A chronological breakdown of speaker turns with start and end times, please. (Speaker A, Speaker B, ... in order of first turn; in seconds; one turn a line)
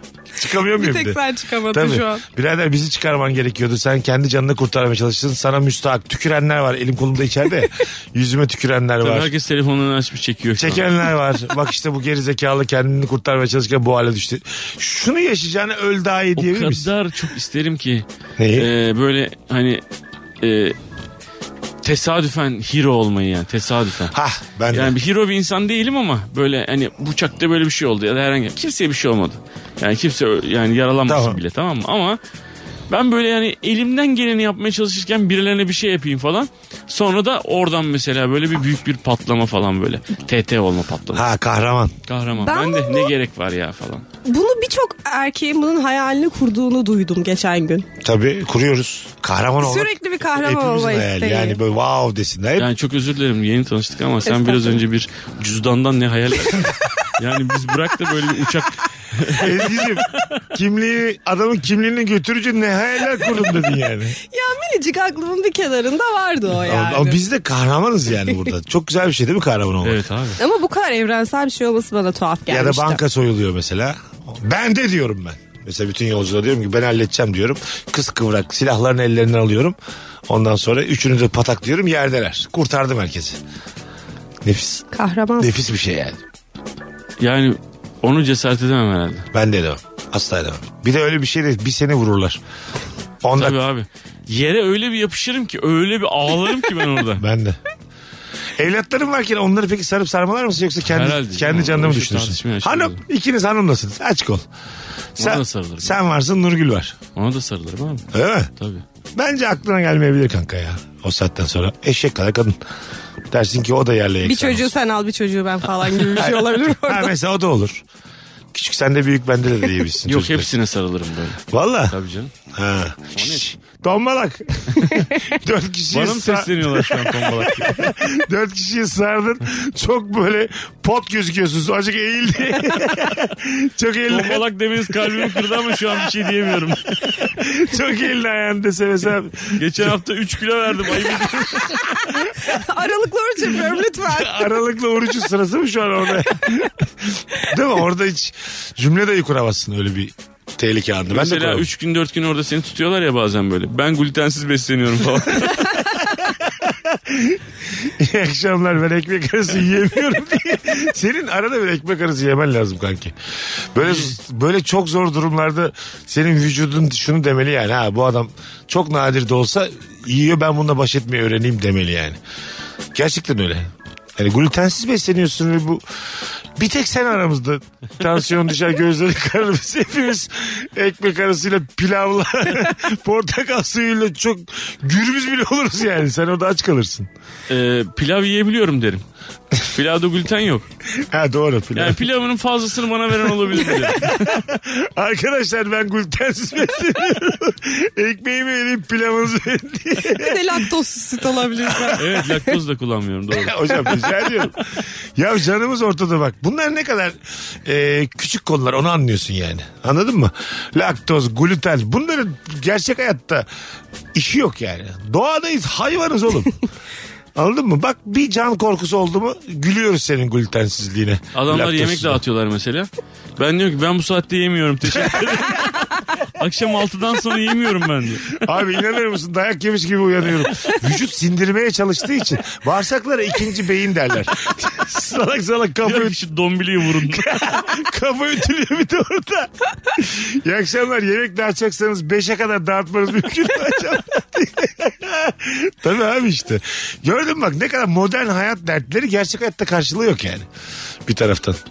Speaker A: 0.3-1.2
Speaker B: 0.7-2.2
Speaker A: 1.7-9.3
Speaker C: 9.0-11.0
Speaker A: 10.6-16.9
Speaker C: 16.4-19.8
Speaker A: 18.4-18.7
Speaker C: 20.4-20.8
Speaker C: 21.8-24.1
Speaker A: 24.1-24.9
Speaker C: 24.7-32.2
Speaker A: 31.1-31.4
Speaker C: 32.9-41.2
Speaker A: 41.1-41.9
Speaker C: 42.0-44.0
Speaker B: 42.3-43.1
Speaker B: 44.2-47.9
Speaker A: 48.0-52.7
Speaker B: 49.6-51.6
Speaker C: 52.6-60.2
Speaker B: 54.2-54.8
Speaker A: 59.3-64.2
Speaker B: 64.2-67.2
Speaker A: 66.6-70.0
Speaker C: 69.8-70.4
Speaker B: 70.4-73.0
Speaker A: 72.5-79.8
Speaker A: 80.3-83.4
Speaker A: 84.4-84.8
Speaker B: 84.9-85.5
Speaker A: 85.4-86.2
Speaker C: 87.2-89.2
Speaker A: 89.3-92.4
Speaker A: 93.2-93.5
Speaker C: 93.3-97.2
Speaker A: 97.2-97.6
Speaker A: 98.6-104.5
Speaker C: 100.8-103.0
Speaker C: 105.2-106.0
Speaker A: 105.2-107.0
Speaker C: 107.1-108.0
Speaker A: 108.1-108.5
Speaker C: 108.6-108.8
Speaker A: 109.2-112.6
Speaker A: 113.3-114.7
Speaker B: 114.2-117.1
Speaker A: 116.1-117.8
Speaker A: 118.5-120.5
Speaker C: 120.0-122.3
Speaker A: 121.5-121.9
Speaker A: 122.5-136.1
Speaker C: 123.2-123.4
Speaker C: 125.9-127.9
Speaker C: 134.1-137.3
Speaker A: 136.9-139.9
Speaker C: 139.5-141.9
Speaker A: 141.1-142.5
Speaker B: 142.1-144.5
Speaker A: 144.0-151.7
Speaker C: 151.1-155.8
Speaker A: 156.5-163.1
Speaker A: 163.7-172.2
Speaker C: 163.8-164.1
Speaker A: 172.9-175.8
Speaker A: 176.6-187.1
Speaker C: 187.5-189.0
Speaker C: 189.6-190.6
Speaker A: 190.9-192.0
Speaker C: 191.7-194.4
Speaker A: 193.7-200.7
Speaker B: 200.1-202.4
Speaker A: 201.6-202.0
Speaker C: 202.0-204.3
Speaker A: 203.3-213.4
Speaker A: 214.1-216.6
Speaker A: 217.3-222.2
Speaker C: 221.3-228.4
Speaker A: 228.4-236.2
Speaker C: 235.8-237.6
Speaker A: 237.0-250.4
Speaker A: 251.1-251.6